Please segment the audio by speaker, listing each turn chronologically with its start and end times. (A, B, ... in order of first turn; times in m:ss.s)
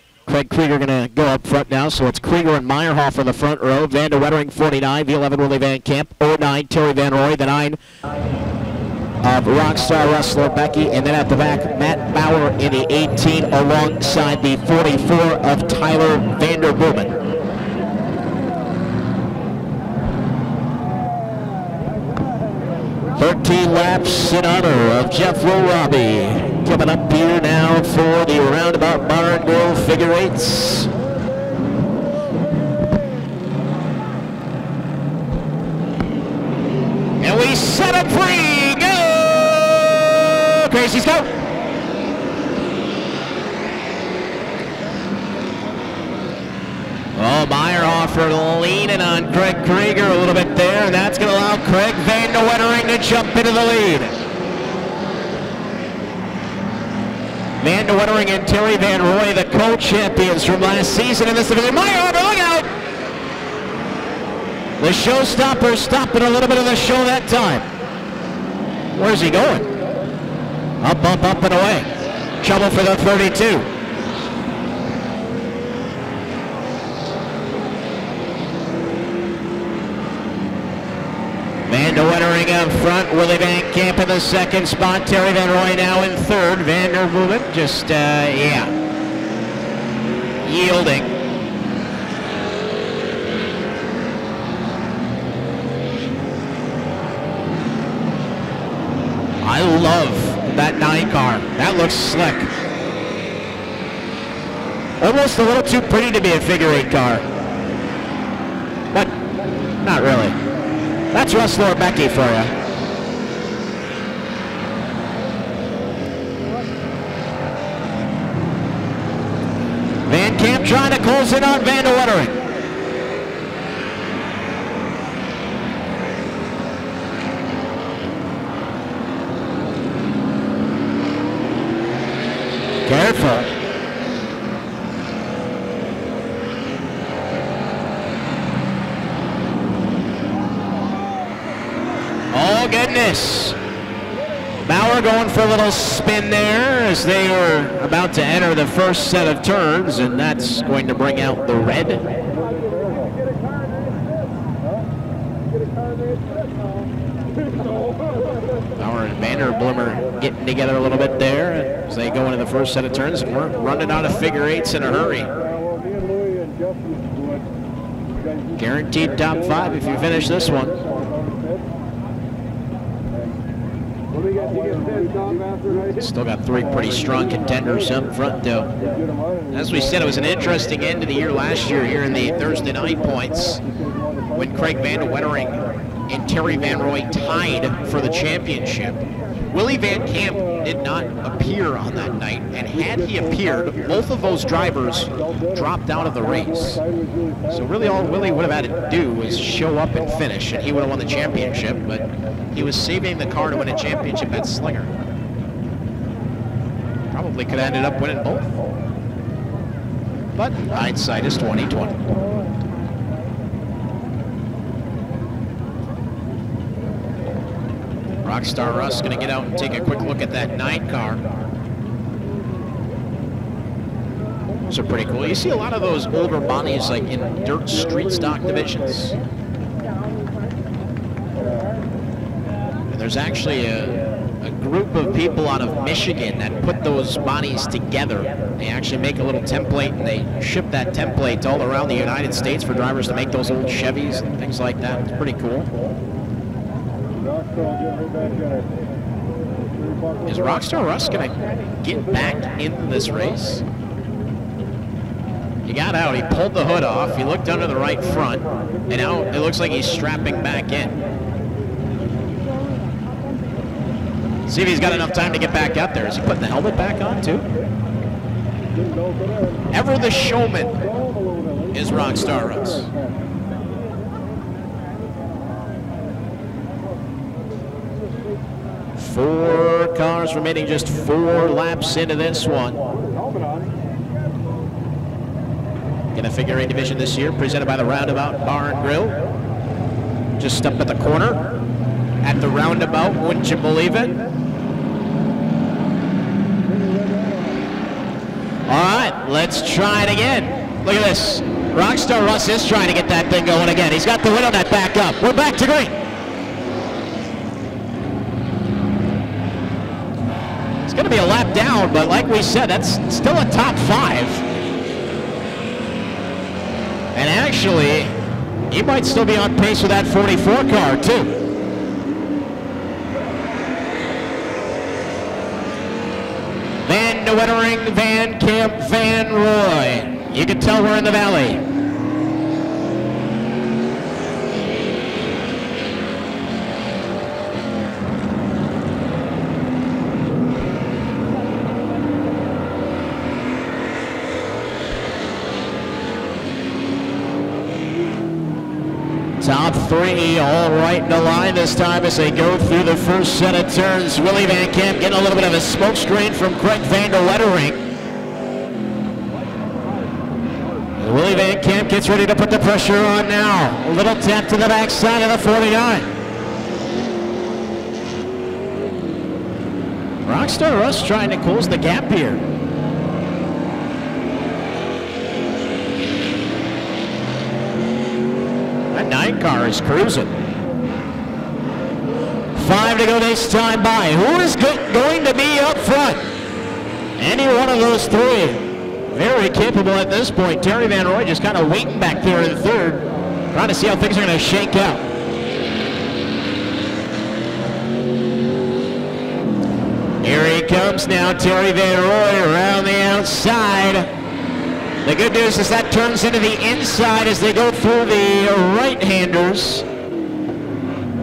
0:00.3-0:07.8 A
0:09.2-0:17.2 A
0:23.2-0:30.9 A
0:37.2-0:41.3 A
0:47.2-0:54.1 A
0:57.6-1:02.7 A
1:04.8-1:07.7 A
1:08.9-1:09.7 A
1:10.8-1:11.9 A
1:12.4-1:13.7 A
1:21.7-1:28.7 A
1:30.4-1:31.1 A
1:39.4-1:42.5 A
1:45.0-1:47.2 A
1:49.8-1:50.4 A
1:51.1-1:52.5 A
2:00.1-2:02.4 A
2:12.8-2:13.5 A
2:22.3-2:23.6 A
2:24.6-2:32.0 A
2:38.8-2:45.3 A
2:48.6-2:50.8 A
2:56.0-2:58.7 A
2:59.5-3:03.6 A
3:04.3-3:16.8 A
3:17.5-3:24.9 A
3:27.1-3:28.5 A
3:30.4-3:32.0 A
3:38.2-3:41.2 A
3:44.7-3:49.1 A
3:52.9-4:05.7 A
4:10.3-4:13.6 A
4:15.7-4:21.0 A
4:24.5-4:27.4 A
4:29.7-4:30.8 A
4:31.7-4:32.9 A
4:39.0-4:42.8 A
4:46.1-4:49.2 A
4:50.4-4:51.4 A
4:52.2-4:54.1 A
4:58.7-5:06.0 A
5:10.9-5:14.4 A
5:17.1-5:18.2 A
5:18.7-5:21.4 A
5:26.8-5:31.6 A
5:49.4-5:57.8 A
6:01.0-6:06.1 A
6:10.2-6:12.4 A
6:18.9-6:20.4 A
6:22.6-6:26.3 A
6:27.2-6:35.0 A
6:40.2-6:44.1 A
6:45.0-6:49.9 A